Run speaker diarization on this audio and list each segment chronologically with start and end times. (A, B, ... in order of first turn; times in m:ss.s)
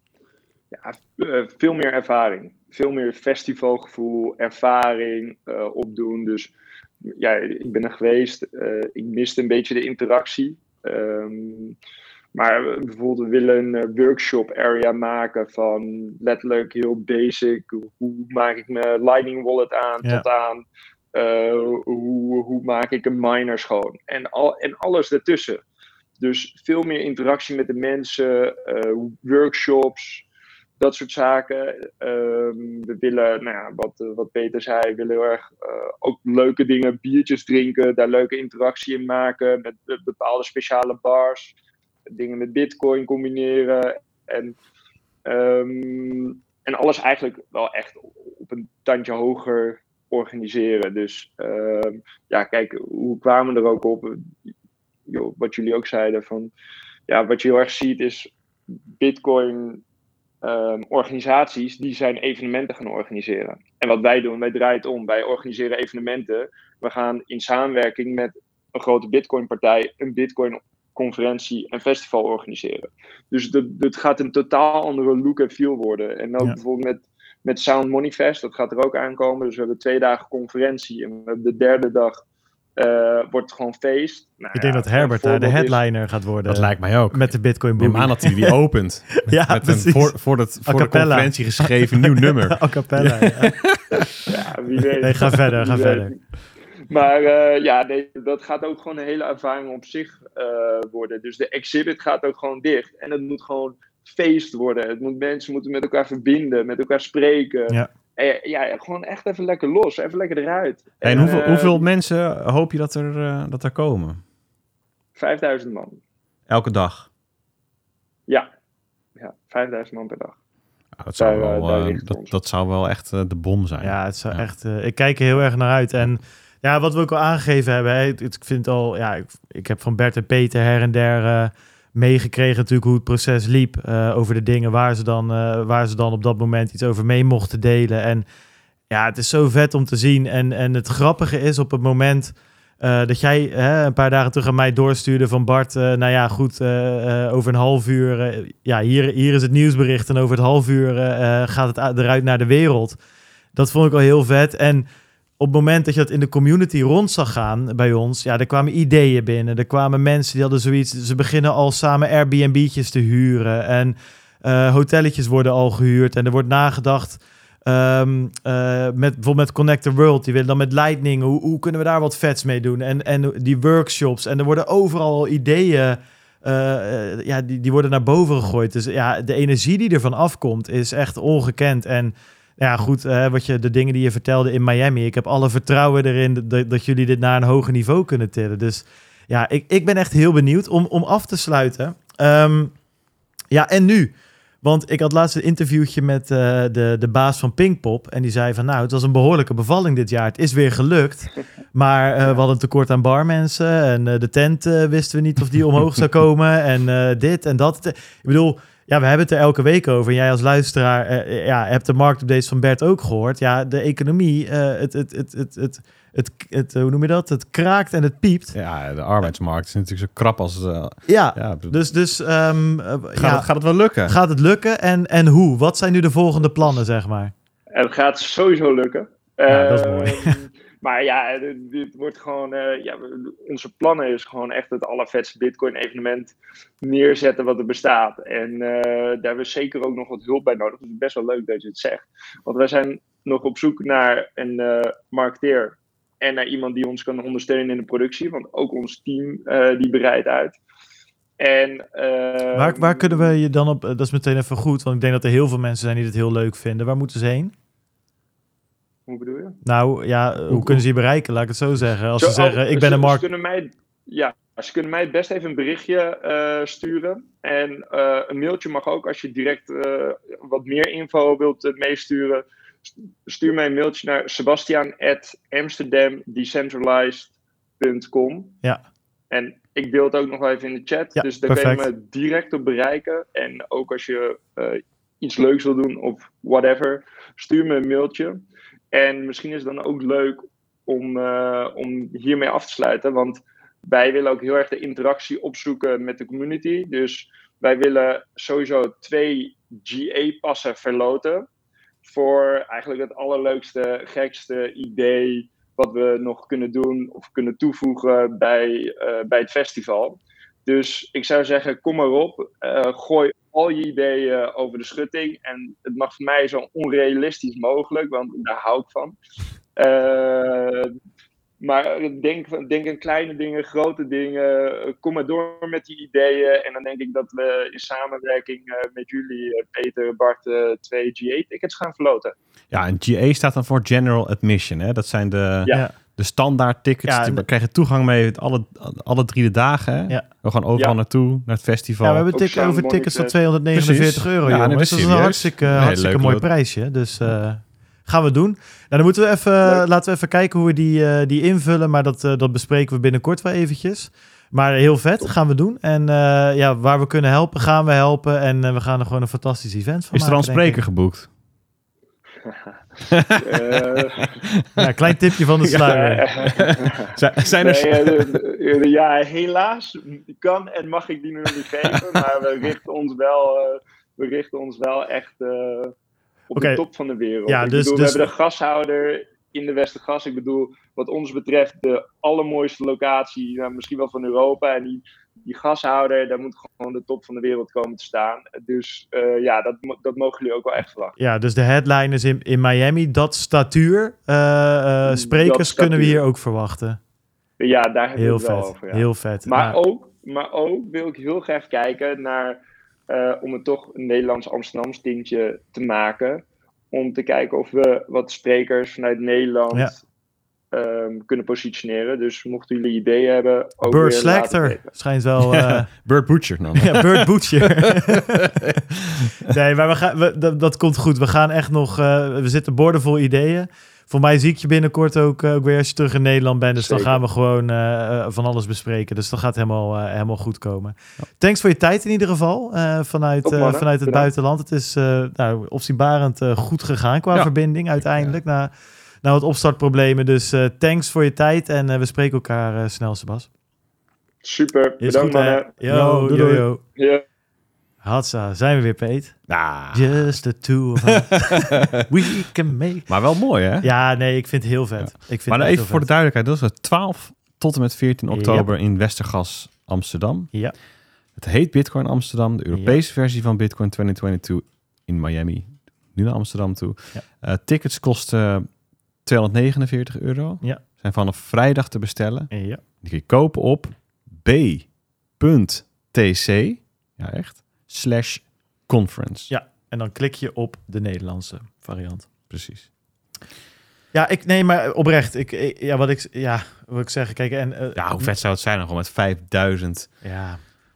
0:00.7-0:06.5 A
0:07.1-0:11.8 A
0:12.4-0:25.6 A
0:26.2-0:30.2 A
0:30.8-0:41.5 A
0:42.1-0:44.6 A
0:45.3-0:54.3 A
0:55.1-0:56.5 A
0:57.1-0:58.3 A
0:59.0-0:59.8 A
1:00.4-1:22.2 A
1:22.8-1:25.8 A
1:24.5-1:28.5 B
1:26.5-1:34.0 C
1:29.3-1:30.1 B
1:30.6-1:33.6 B
1:34.3-1:36.2 A
1:35.0-1:36.1 B
1:36.9-1:51.9 A
1:51.0-1:54.2 C
1:55.2-1:56.0 A
1:56.5-1:57.1 C
1:59.2-2:00.4 A
2:01.0-2:04.4 C
2:01.2-2:02.3 A
2:03.8-2:18.2 B
2:18.9-2:33.0 B
2:33.6-2:34.9 B
2:35.4-3:12.8 B
3:13.5-3:38.6 B
3:38.5-3:41.8 C
3:41.1-3:43.5 B
3:43.2-3:44.2 C
3:44.1-3:47.3 B
3:47.7-4:10.6 A
3:49.5-3:50.4 B
4:11.4-4:13.3 A
4:12.5-4:17.5 B
4:19.1-4:19.6 A
4:19.6-4:23.2 B
4:22.2-4:38.6 A
4:39.3-4:48.4 A
4:41.2-4:41.9 B
4:48.9-5:01.4 A
5:02.0-5:19.2 A
5:19.8-5:20.9 A
5:21.6-5:32.4 A
5:32.7-5:42.3 C
5:35.7-5:36.0 B
5:37.1-5:37.4 B
5:42.0-6:00.8 B
5:42.3-5:43.4 A
5:43.7-5:46.5 C
6:00.1-6:01.3 C
6:03.1-6:04.9 C
6:03.4-6:04.4 A
6:04.8-6:06.2 B
6:05.8-6:15.9 A
6:06.4-6:08.4 C
6:11.9-6:12.2 C
6:16.5-6:31.2 A
6:16.6-6:16.8 B
6:17.5-6:18.3 B
6:31.2-6:37.0 B
6:35.1-6:36.2 A
6:37.6-6:50.0 A
6:38.2-6:39.8 B
6:50.7-6:54.9 A
6:53.8-6:55.9 B
6:55.4-6:59.5 C
6:56.8-6:58.6 B
6:59.5-7:18.7 B
7:06.8-7:07.2 A
7:13.4-7:14.3 A
7:17.3-7:18.4 C
7:19.2-7:23.5 B
7:24.4-7:25.8 A
7:25.0-7:26.8 B
7:25.9-7:26.7 C
7:27.0-7:27.2 A
7:28.0-7:33.1 B
7:29.5-7:30.3 C
7:31.6-7:32.0 C
7:33.1-7:33.9 C
7:33.8-7:36.1 B
7:35.0-7:40.5 C
7:38.3-7:38.7 B
7:41.4-7:48.7 C
7:42.7-7:43.0 B
7:49.2-7:52.5 C
7:52.5-7:52.8 B
7:53.0-7:59.5 C
7:59.5-8:02.3 B
8:02.5-8:02.9 C
8:04.1-8:08.4 B
8:08.0-8:10.1 C
8:10.2-8:10.6 B